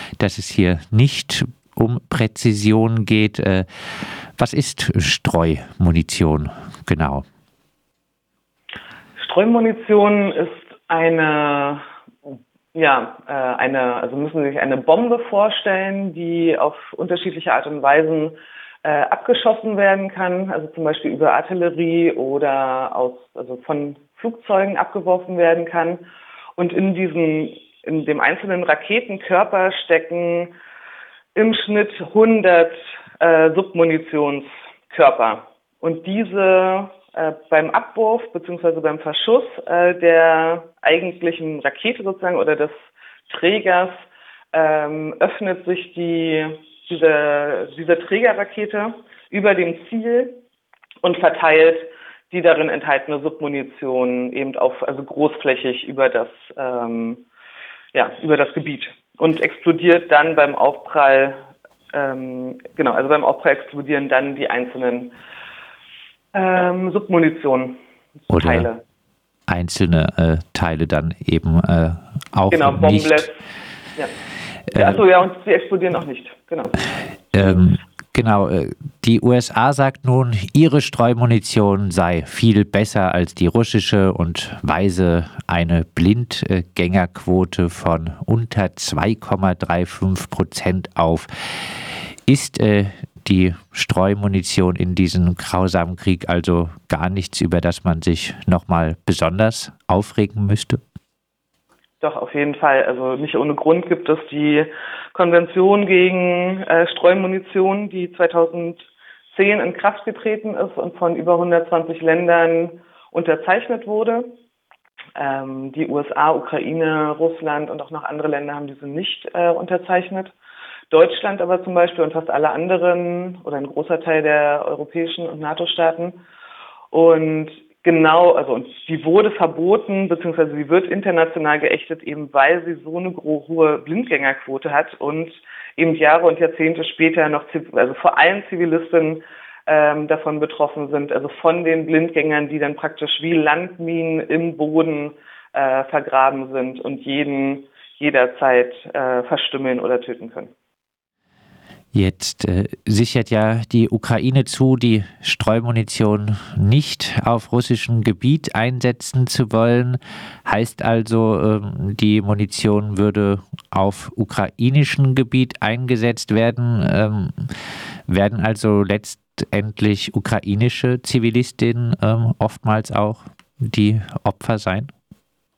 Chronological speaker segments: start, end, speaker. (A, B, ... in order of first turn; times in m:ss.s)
0:00.2-0:07.2 A
0:09.2-0:11.8 B
0:12.7-0:26.1 B
0:26.6-0:30.5 B
0:31.4-0:42.7 B
0:43.3-0:50.4 B
0:51.0-0:57.2 B
0:57.9-1:01.4 B
1:01.9-1:05.2 B
1:06.3-1:07.8 B
1:08.3-1:08.7 A
1:08.4-1:08.8 B
1:09.5-1:13.2 A
1:12.5-1:13.4 B
1:14.7-1:17.7 B
1:17.3-1:31.8 A
1:32.3-1:40.8 A
1:42.0-1:54.3 B
1:55.2-2:00.3 B
2:00.9-2:06.2 B
2:06.9-2:30.5 B
2:31.9-2:47.6 A
2:48.1-2:54.9 A